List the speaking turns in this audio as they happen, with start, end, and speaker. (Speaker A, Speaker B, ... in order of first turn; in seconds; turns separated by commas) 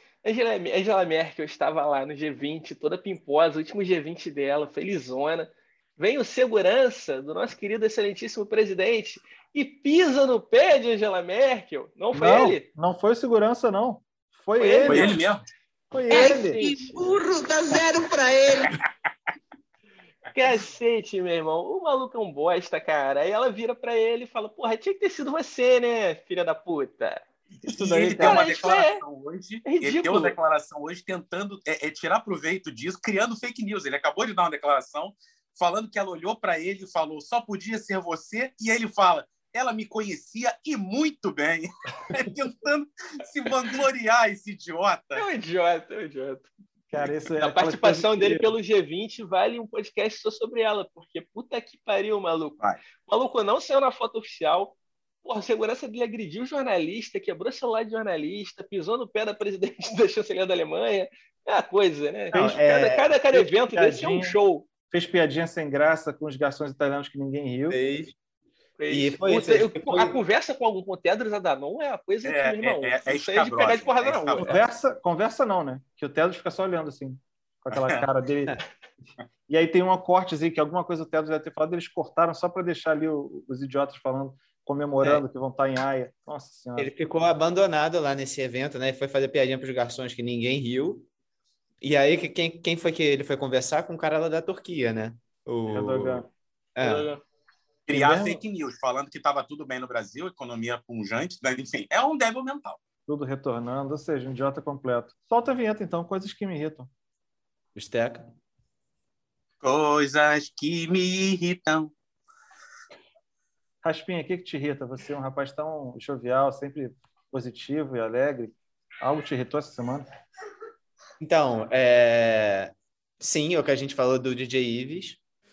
Speaker A: 0.2-12.6, Speaker B: 12.1-15.2, Speaker A: 14.6-15.2, Speaker C: 14.8-15.4, Speaker B: 15.9-16.6, Speaker D: 16.1-18.8, Speaker A: 16.1-16.9, Speaker A: 20.3-27.2, Speaker B: 27.6-28.5, Speaker C: 27.7-45.3, Speaker A: 28.2-29.0, Speaker A: 29.6-30.4, Speaker A: 45.1-46.5, Speaker B: 46.9-48.5, Speaker A: 47.4-64.7, Speaker B: 62.3-64.4, Speaker E: 62.3-62.6, Speaker B: 64.9-67.8, Speaker E: 67.7-68.1, Speaker A: 68.8-74.6, Speaker E: 68.9-70.2, Speaker C: 72.2-74.6, Speaker B: 74.4-78.6, Speaker C: 77.7-78.0, Speaker B: 79.5-86.9, Speaker E: 86.8-91.1, Speaker E: 91.8-96.2, Speaker B: 95.7-96.3, Speaker E: 96.8-97.1, Speaker A: 96.8-97.2, Speaker C: 97.9-102.8, Speaker B: 97.9-98.4, Speaker B: 103.1-106.9, Speaker E: 107.7-108.3, Speaker C: 109.6-111.9, Speaker B: 113.8-120.1, Speaker E: 121.2-125.2